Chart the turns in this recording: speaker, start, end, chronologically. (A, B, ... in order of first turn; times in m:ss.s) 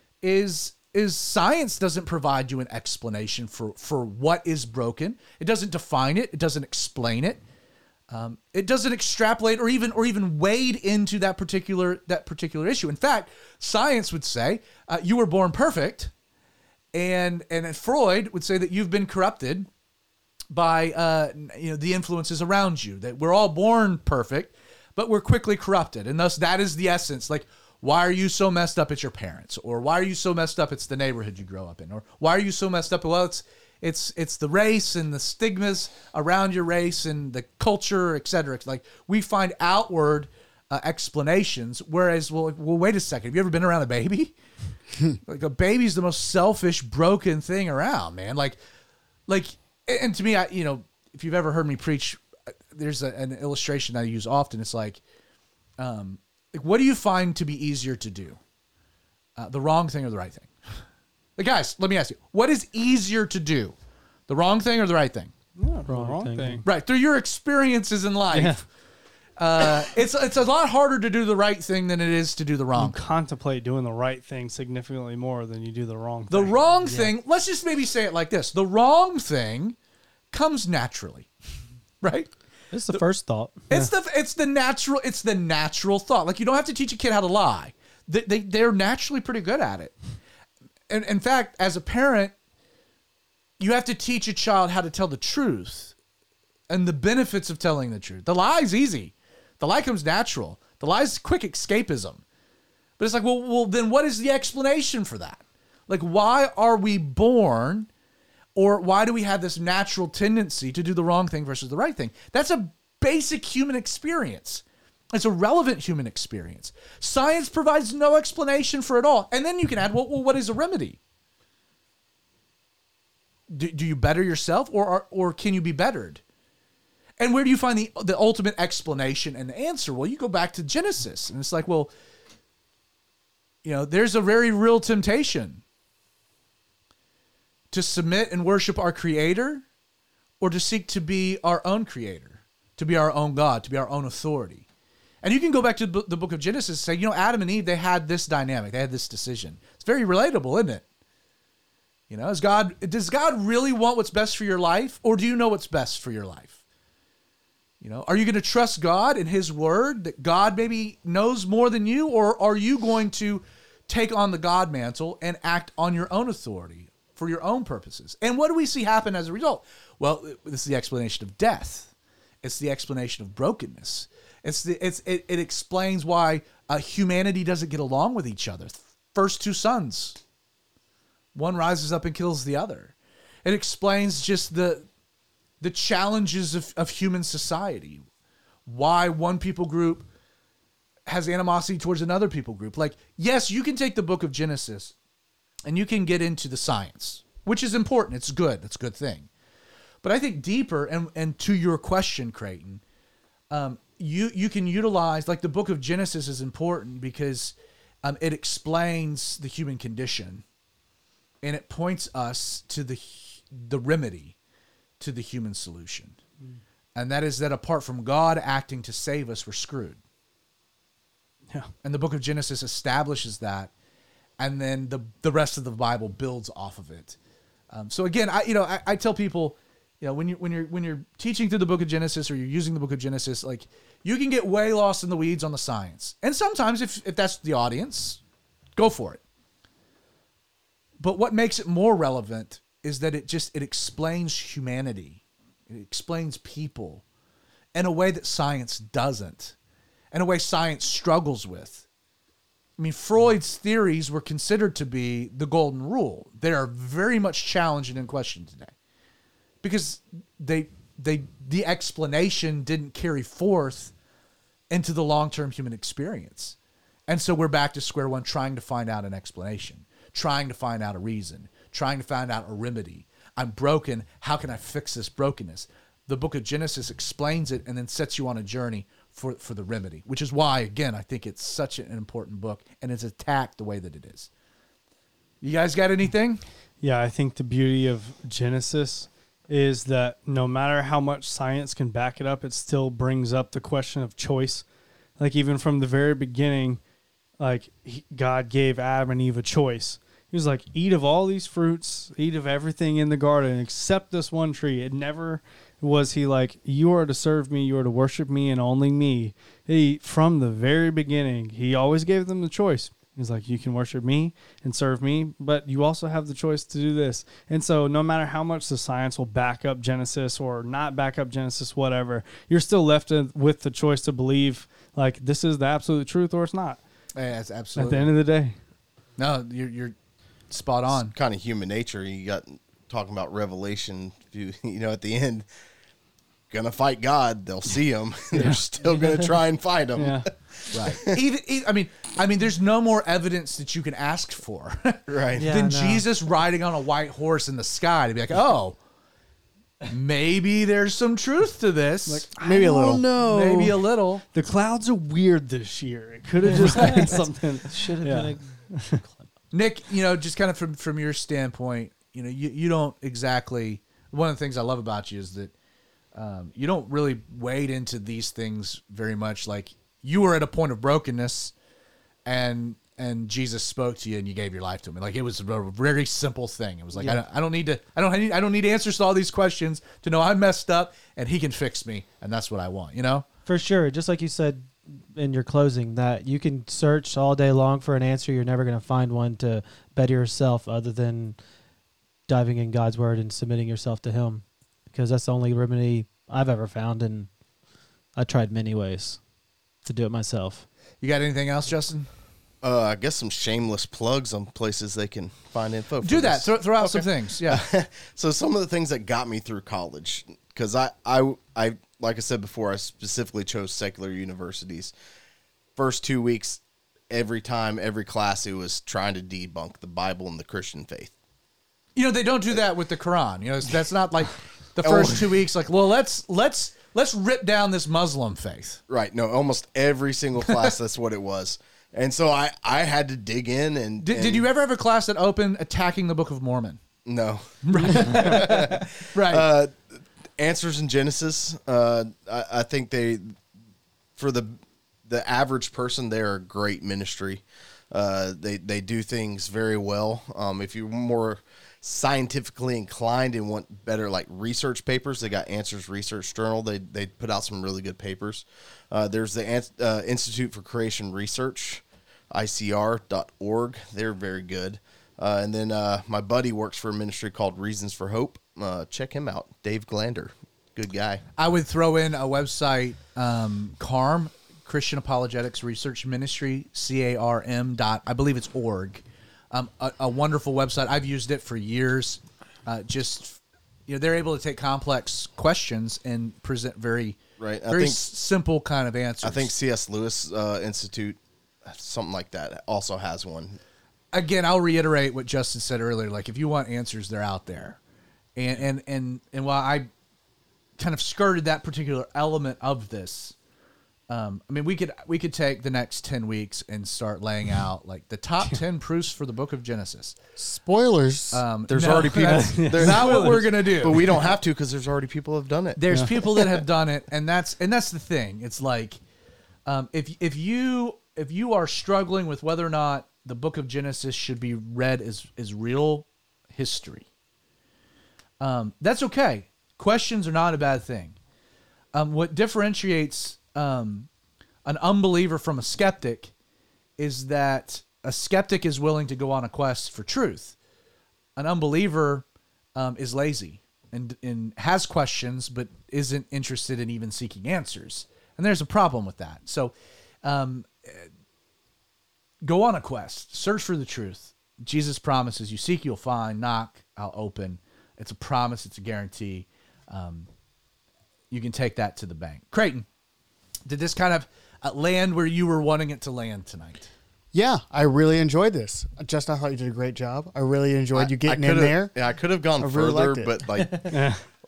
0:00.2-0:07.4 A
0:08.1-0:16.1 A
0:16.9-0:19.7 A
0:20.5-0:44.3 A
0:45.2-0:48.6 A
0:49.3-0:52.2 A
0:52.7-0:55.0 A
0:55.8-0:58.4 A
0:59.4-1:00.5 A
1:01.4-1:03.8 A
1:04.3-1:05.3 A
1:05.6-1:06.6 B
1:05.9-1:06.6 C
1:06.6-1:08.6 A
1:08.3-1:08.6 B
1:09.4-1:13.0 A
1:12.8-1:16.6 B
1:16.3-1:19.8 A
1:20.3-1:21.3 A
1:22.0-1:22.3 A
1:22.7-1:23.9 C
1:23.7-1:30.0 A
1:30.9-1:32.4 A
1:33.6-1:35.9 A
1:36.7-1:42.2 A
1:43.0-1:47.9 A
1:48.6-2:01.0 A
2:03.5-2:06.2 A
2:07.2-2:11.9 A
2:13.6-2:15.6 A
2:17.7-2:19.6 A
2:20.4-2:24.7 A
2:25.2-2:30.8 A
2:32.1-2:36.6 A
2:37.8-2:51.9 A
2:52.4-3:00.2 A
3:01.4-3:04.9 A
3:05.6-3:08.0 A
3:08.7-3:10.1 A
3:11.1-3:15.0 A
3:15.7-3:19.3 A
3:20.0-3:22.8 A
3:23.5-3:30.4 A
3:31.4-3:34.4 A
3:35.0-3:36.2 A
3:37.0-3:40.0 A
3:41.8-3:43.7 A
3:44.4-3:47.2 A
3:47.7-3:58.2 A
3:58.8-3:59.2 A
4:01.0-4:07.0 A
4:07.7-4:09.6 A
4:10.1-4:11.8 A
4:12.8-4:18.7 A
4:19.6-4:23.9 A
4:24.7-4:26.6 A
4:27.1-4:44.3 A
4:45.4-4:46.4 A
4:46.8-4:54.6 B
4:55.2-4:56.8 B
4:57.4-5:26.8 B
5:27.2-5:28.1 A
5:27.8-5:28.6 B
5:29.2-5:30.0 A
5:30.5-5:31.2 A
5:31.1-5:35.5 D
5:36.5-5:41.1 D
5:38.3-5:38.6 B
5:40.0-5:40.3 B
5:40.7-5:48.8 A
5:45.1-5:45.5 D
5:45.4-5:46.0 C
5:49.9-5:52.3 A
5:52.1-5:53.8 B
5:52.4-5:53.1 E
5:52.6-5:53.4 C
5:53.1-5:54.2 A
5:54.3-5:59.0 B
5:56.5-5:59.3 C
5:59.5-6:05.5 A
6:06.2-6:11.5 A
6:12.3-6:23.3 A
6:16.9-6:17.2 C
6:23.5-6:31.4 C
6:32.3-6:37.3 C
6:38.2-6:39.2 C
6:39.8-6:40.7 C
6:41.0-6:42.1 A
6:42.6-6:54.9 D
6:46.0-6:47.6 A
6:55.8-7:01.1 D
7:02.0-7:08.8 A
7:04.8-7:05.3 D
7:08.9-7:14.5 D
7:14.0-7:16.8 A
7:17.0-7:23.4 D
7:17.6-7:19.5 A
7:24.2-7:24.6 D
7:25.1-7:51.2 D
7:51.4-8:09.5 A
8:07.4-8:08.0 D
8:09.2-8:13.6 D
8:14.1-8:17.8 A
8:18.4-8:19.9 A
8:20.8-8:23.4 A
8:24.1-8:30.2 A
8:30.4-8:31.4 E
8:31.3-8:34.1 A
8:31.7-8:36.4 D
8:32.2-8:33.4 B
8:35.8-8:39.0 A
8:39.7-8:47.1 A
8:48.4-8:51.2 A
8:51.9-8:54.1 A
8:54.6-8:56.3 A
8:57.0-9:00.6 A
9:01.4-9:11.1 A
9:12.4-9:20.3 A
9:21.3-9:22.9 A
9:23.7-9:26.9 A
9:27.3-9:31.9 E
9:31.0-9:34.0 D
9:31.2-9:31.7 A
9:32.6-9:33.4 E
9:33.6-9:34.0 C
9:33.9-9:34.2 B